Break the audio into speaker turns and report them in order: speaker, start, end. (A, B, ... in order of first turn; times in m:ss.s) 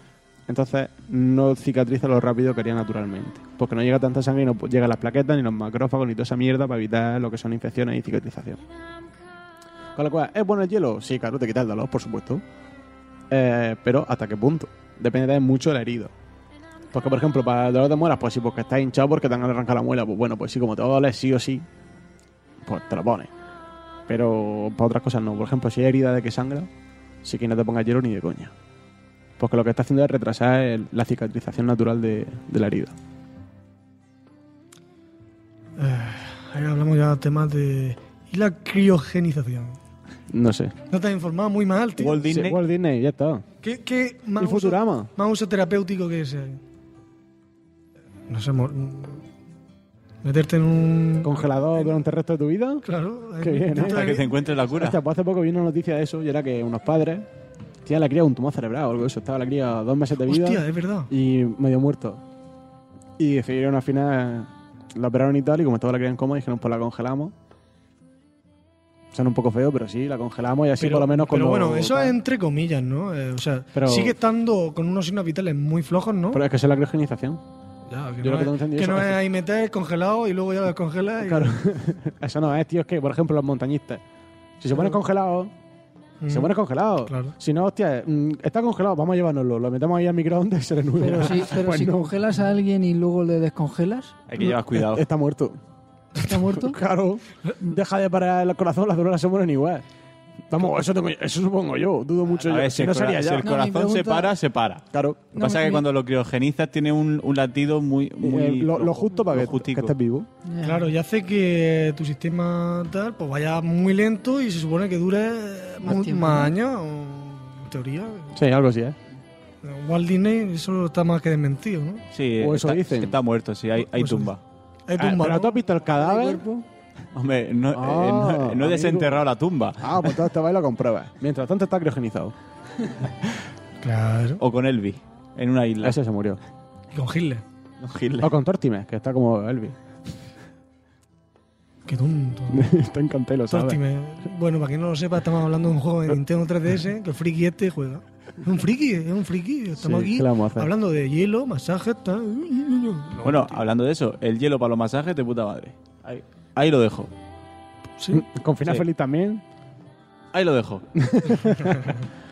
0:00.5-0:08.6 A
0:10.0-0:12.4 A
0:13.3-0:16.1 A
0:16.9-0:21.6 A
0:22.6-0:23.3 A
0:24.1-0:26.7 A
0:27.2-0:28.5 A
0:29.4-0:32.9 A
0:35.8-0:39.8 B
0:40.3-0:40.7 A
0:40.9-0:42.3 B
0:42.0-0:42.6 C
0:42.2-0:43.4 A
0:43.6-0:46.6 B
0:44.4-0:45.1 A
0:48.3-0:49.2 B
0:50.2-0:51.9 B
0:51.2-0:52.8 A
0:52.8-0:54.4 B
0:53.4-0:57.3 A
0:53.7-0:55.0 C
0:57.8-1:02.2 A
1:00.2-1:01.1 B
1:03.2-1:07.3 A
1:09.1-1:12.2 A
1:10.8-1:16.4 B
1:13.7-1:14.2 A
1:16.3-1:17.4 A
1:17.9-1:21.6 B
1:18.2-1:19.2 A
1:21.2-1:24.0 A
1:24.6-1:25.5 A
1:26.2-1:27.3 B
1:26.3-1:32.1 A
1:31.0-1:34.1 D
1:34.3-1:35.0 C
1:34.4-1:35.6 A
1:36.2-1:36.7 D
1:36.5-1:39.8 A
1:40.5-1:43.5 A
1:42.4-1:44.8 C
1:43.4-1:44.3 D
1:44.9-1:45.3 A
1:45.3-1:45.8 D
1:45.3-1:49.9 C
1:48.2-1:50.3 A
1:50.4-1:50.9 D
1:50.6-1:58.3 B
1:55.8-1:56.5 D
1:58.4-1:59.0 A
1:59.6-2:02.0 B
2:02.1-2:04.4 C
2:02.4-2:03.2 A
2:03.8-2:04.3 B
2:04.9-2:05.6 B
2:05.0-2:06.4 A
2:06.0-2:06.6 D
2:07.1-2:10.1 C
2:07.7-2:09.2 A
2:09.8-2:13.1 A
2:13.8-2:14.4 B
2:14.4-2:16.0 C
2:15.8-2:16.4 A
2:16.9-2:17.4 B
2:17.8-2:18.3 C
2:18.2-2:19.8 A
2:21.8-2:22.7 B
2:22.5-2:23.8 A
2:23.5-2:33.6 B
2:29.8-2:30.7 A
2:33.2-2:37.1 C
2:38.0-2:38.2 B
2:38.1-2:39.4 A
2:40.3-2:40.9 C
2:41.0-2:41.8 A
2:41.7-2:41.9 B